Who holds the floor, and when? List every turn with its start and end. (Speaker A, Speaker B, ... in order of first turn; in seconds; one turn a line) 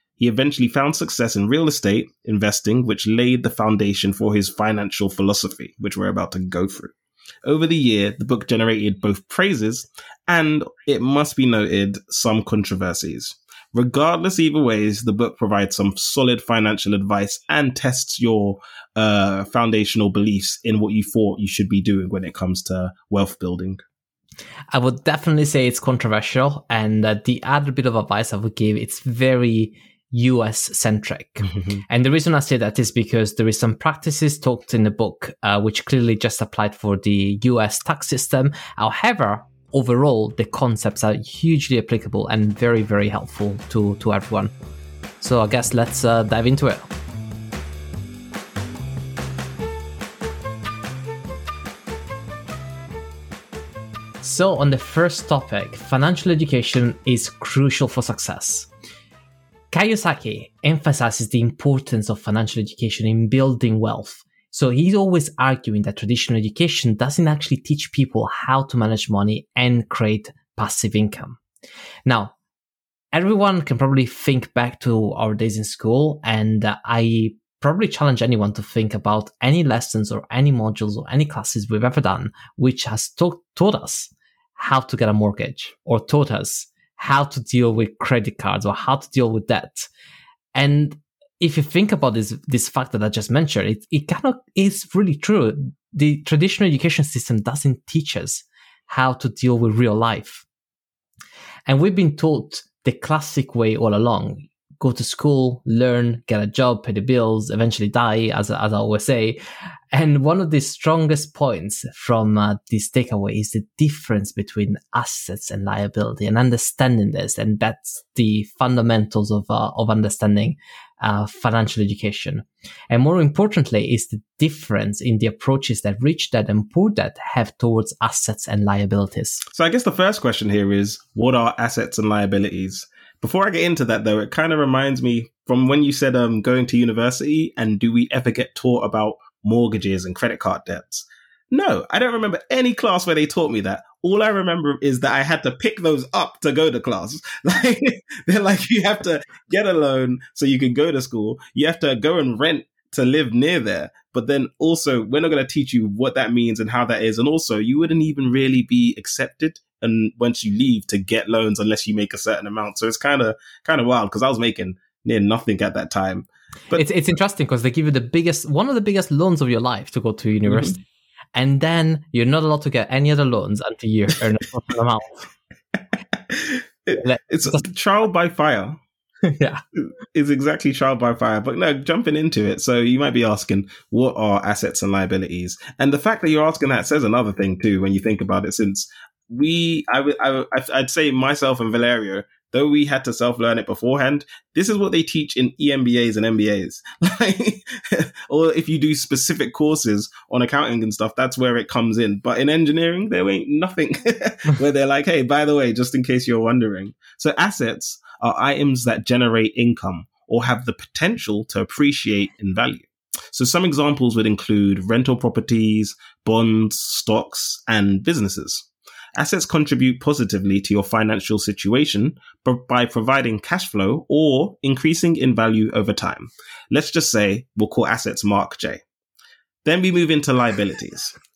Speaker A: 0.2-23.8
Speaker B: 24.7-44.5
Speaker A: 31.5-31.8
Speaker B: 45.2-46.9
Speaker B: 54.2-58.7
Speaker B: 59.7-71.4
Speaker B: 72.0-72.3
Speaker B: 73.1-89.9
Speaker B: 90.5-100.5
Speaker B: 101.7-109.4
Speaker B: 109.9-129.4
Speaker A: 129.5-166.8
Speaker B: 166.7-170.8
Speaker A: 170.5-170.8
Speaker B: 171.3-175.3
Speaker A: 176.1-178.8
Speaker B: 177.0-177.6
Speaker B: 179.2-179.6
Speaker A: 179.8-228.8
Speaker A: 229.6-231.2